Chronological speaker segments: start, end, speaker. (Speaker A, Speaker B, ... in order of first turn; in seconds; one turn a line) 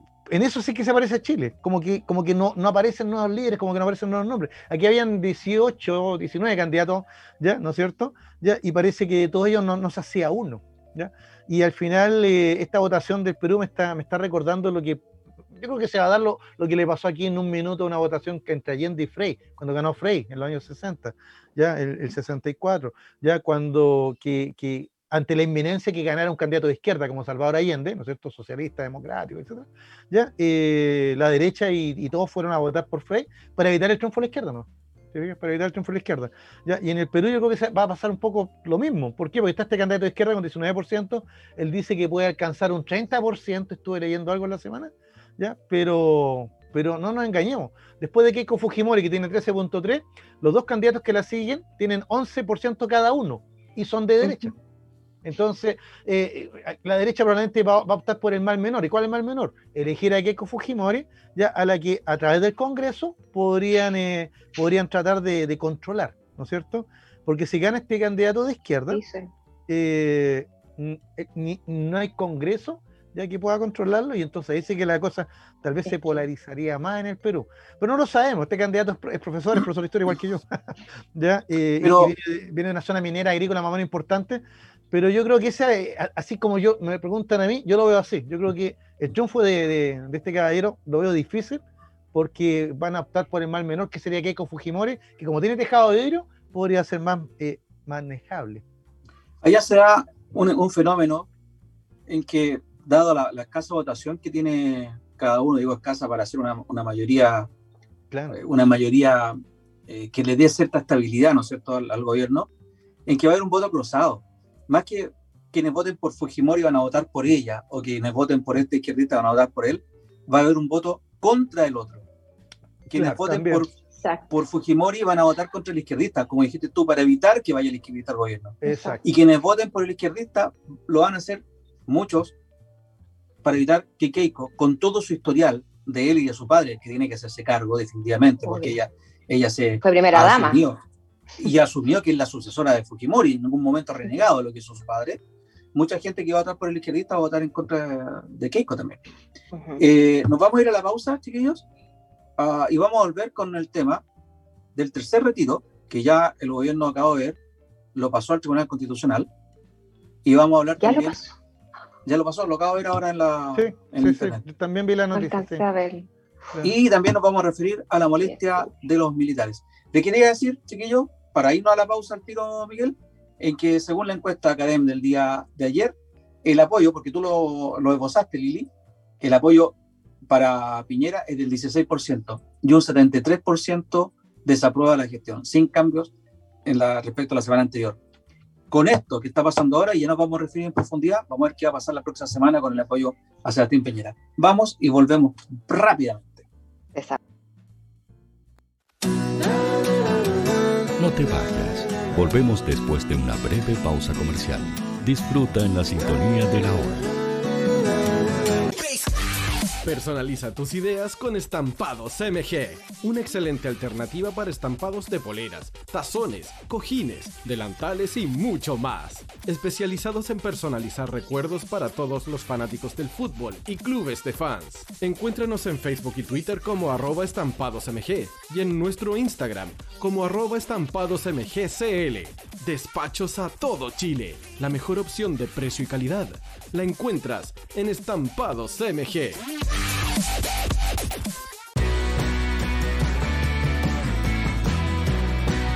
Speaker A: 0.3-54.5
Speaker A: 55.2-69.0
Speaker B: 68.9-69.3
Speaker A: 69.7-80.6
Speaker B: 75.9-76.2
Speaker A: 81.1-91.6
Speaker C: 81.8-82.1
Speaker A: 92.1-98.6
Speaker C: 99.4-101.3
Speaker C: 102.1-107.5
Speaker A: 108.1-108.4
Speaker C: 108.3-112.5
Speaker C: 113.0-122.0
Speaker A: 122.9-123.6
Speaker C: 122.9-123.7
Speaker C: 124.3-132.3
Speaker A: 128.6-129.0
Speaker B: 128.6-129.0
Speaker C: 133.4-140.8
Speaker B: 138.4-138.8
Speaker B: 139.8-140.6
Speaker C: 141.4-145.2
Speaker C: 145.7-149.0
Speaker B: 149.5-149.8
Speaker C: 149.8-151.6
Speaker C: 152.4-154.0
Speaker C: 154.8-157.4
Speaker C: 157.9-159.3
Speaker C: 160.2-161.2
Speaker B: 160.8-161.3
Speaker C: 162.1-164.4
Speaker A: 163.5-165.6
Speaker B: 165.1-166.1
Speaker C: 166.6-175.9
Speaker B: 168.2-168.6
Speaker C: 176.4-178.7
Speaker C: 179.2-179.7
Speaker C: 180.3-186.1
Speaker C: 186.7-188.0
Speaker C: 188.7-196.4
Speaker D: 201.0-207.0
Speaker E: 209.8-239.4